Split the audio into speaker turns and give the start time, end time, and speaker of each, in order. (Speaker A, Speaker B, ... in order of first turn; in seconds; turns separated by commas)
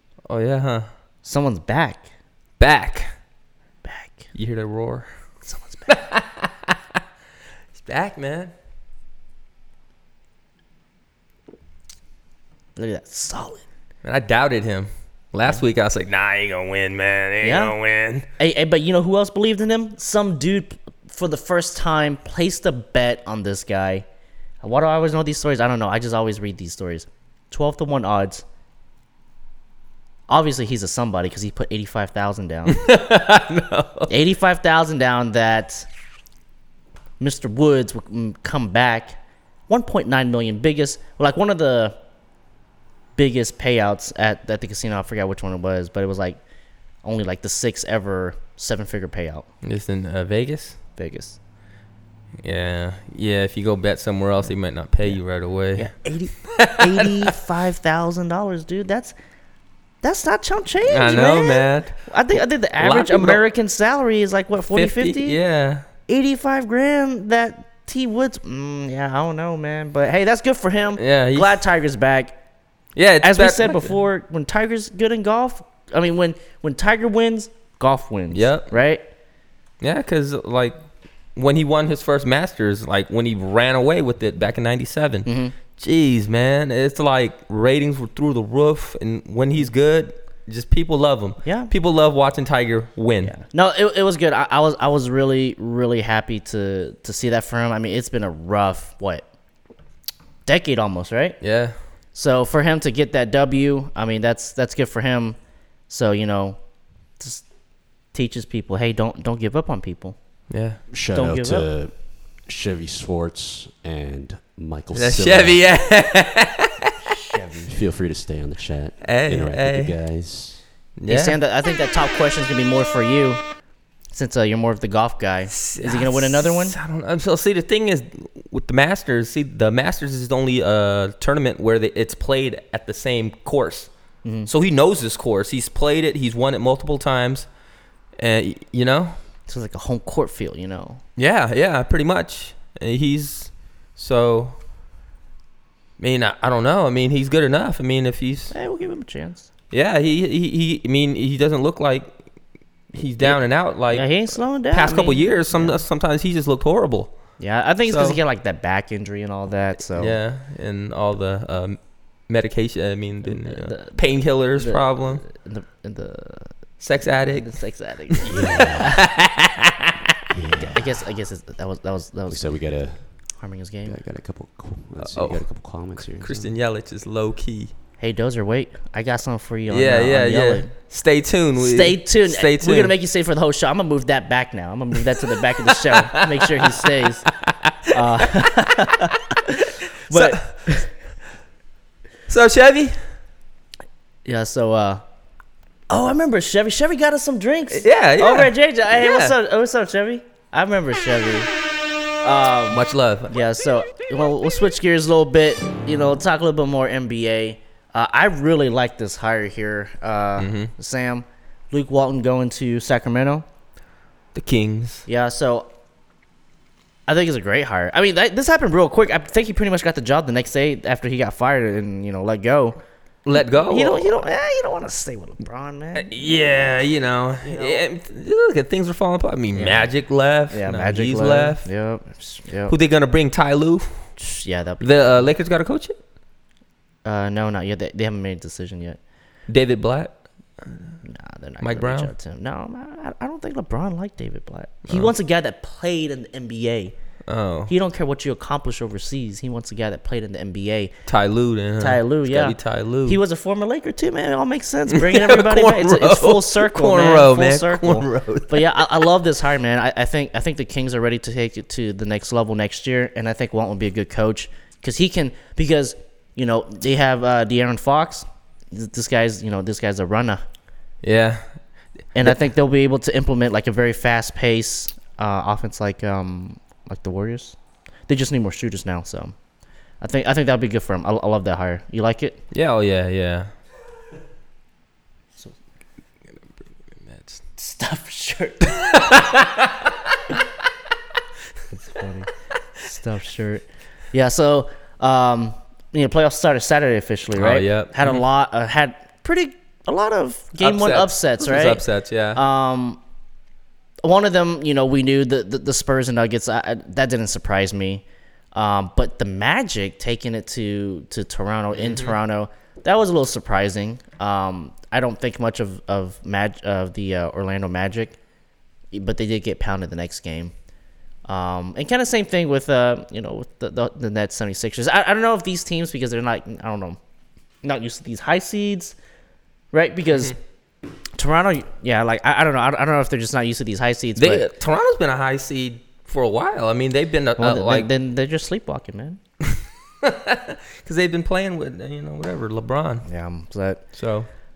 Speaker A: 0.3-0.9, Speaker B: 1.2-2.1, Speaker A: 2.6-3.1, Speaker B: 3.8-4.3, Speaker A: 4.3-5.1, Speaker B: 5.4-5.9, Speaker A: 5.9-6.8, Speaker A: 7.7-8.5, Speaker B: 12.8-13.6, Speaker A: 14.0-18.2, Speaker B: 17.4-17.8, Speaker B: 18.4-24.1, Speaker B: 24.6-28.4, Speaker B: 30.3-32.8, Speaker A: 32.7-34.1, Speaker B: 34.1-35.9, Speaker B: 37.2-39.2, Speaker B: 39.7-42.0, Speaker B: 43.2-46.4, Speaker B: 47.0-49.5, Speaker A: 49.6-50.8, Speaker B: 51.0-51.4, Speaker A: 52.4-55.9, Speaker B: 55.7-59.1, Speaker A: 56.4-57.3, Speaker B: 60.0-65.4, Speaker A: 60.8-62.0, Speaker A: 62.8-63.4, Speaker A: 64.7-65.9, Speaker B: 66.1-72.3, Speaker A: 71.0-71.6, Speaker A: 73.0-74.0, Speaker B: 73.2-79.0, Speaker A: 78.3-78.7, Speaker A: 79.8-80.8, Speaker A: 81.4-93.3, Speaker B: 85.3-85.6, Speaker B: 91.4-91.7, Speaker B: 93.2-99.2, Speaker B: 100.5-101.4, Speaker A: 101.4-101.8, Speaker B: 102.1-105.4, Speaker B: 105.9-106.6, Speaker B: 107.2-107.4, Speaker B: 108.1-110.2, Speaker A: 110.5-110.8, Speaker C: 110.9-115.7, Speaker B: 111.1-111.7, Speaker A: 114.9-116.9, Speaker B: 117.0-117.7, Speaker C: 117.7-120.6, Speaker A: 119.0-120.0, Speaker A: 121.0-121.4, Speaker B: 121.1-123.4, Speaker B: 124.1-126.8, Speaker A: 125.5-133.9, Speaker B: 134.2-134.5, Speaker A: 134.5-137.5, Speaker A: 138.2-139.2, Speaker B: 139.5-141.0, Speaker A: 141.2-144.6, Speaker A: 146.0-148.5, Speaker B: 148.5-149.5, Speaker A: 149.7-152.1, Speaker A: 152.9-157.2, Speaker B: 153.9-155.8, Speaker B: 157.4-160.2, Speaker A: 157.9-158.2, Speaker A: 159.9-165.2, Speaker B: 163.2-164.0, Speaker B: 164.6-166.5, Speaker A: 166.8-167.6, Speaker B: 167.3-169.0, Speaker A: 168.1-169.9, Speaker C: 168.3-169.0, Speaker C: 170.3-171.0, Speaker B: 170.6-172.4, Speaker C: 172.3-173.1, Speaker B: 173.3-174.0, Speaker C: 173.9-176.5, Speaker A: 175.0-177.7, Speaker B: 178.0-180.7, Speaker A: 179.7-182.9, Speaker B: 181.6-187.3, Speaker A: 185.9-187.9, Speaker B: 187.9-190.9, Speaker A: 190.1-190.6, Speaker A: 192.3-193.1, Speaker B: 194.2-195.0, Speaker B: 195.9-201.5, Speaker A: 197.7-199.3, Speaker B: 202.2-213.5, Speaker A: 202.7-203.3, Speaker A: 210.4-210.7, Speaker A: 214.3-215.1, Speaker B: 215.1-215.7, Speaker B: 217.1-222.8, Speaker A: 223.2-224.1, Speaker B: 223.4-226.8, Speaker A: 225.9-231.7, Speaker B: 227.4-227.8, Speaker B: 229.6-229.9, Speaker B: 230.5-232.7, Speaker A: 232.7-234.1, Speaker B: 234.2-235.2, Speaker A: 234.8-236.0, Speaker B: 237.1-239.0, Speaker A: 239.5-240.9, Speaker B: 241.0-246.9, Speaker A: 241.6-242.1, Speaker A: 247.3-247.7, Speaker B: 247.7-250.9, Speaker A: 251.1-253.2, Speaker B: 251.8-270.4, Speaker A: 254.9-258.8, Speaker A: 271.0-271.4, Speaker B: 272.1-277.6, Speaker B: 278.1-279.4, Speaker B: 280.0-282.4, Speaker A: 282.5-283.5, Speaker A: 287.0-287.4, Speaker B: 287.6-288.8, Speaker A: 288.6-290.2, Speaker B: 291.7-292.3, Speaker B: 292.8-301.8, Speaker A: 297.4-298.2, Speaker A: 300.6-302.4, Speaker B: 302.4-303.0, Speaker B: 304.0-318.2, Speaker A: 311.7-312.2, Speaker B: 318.9-320.5, Speaker B: 321.3-327.0, Speaker B: 327.6-329.0, Speaker B: 329.7-330.4, Speaker B: 331.2-334.5, Speaker A: 334.2-337.9, Speaker B: 337.4-339.2, Speaker A: 339.6-343.1, Speaker B: 343.1-343.8, Speaker A: 344.0-344.3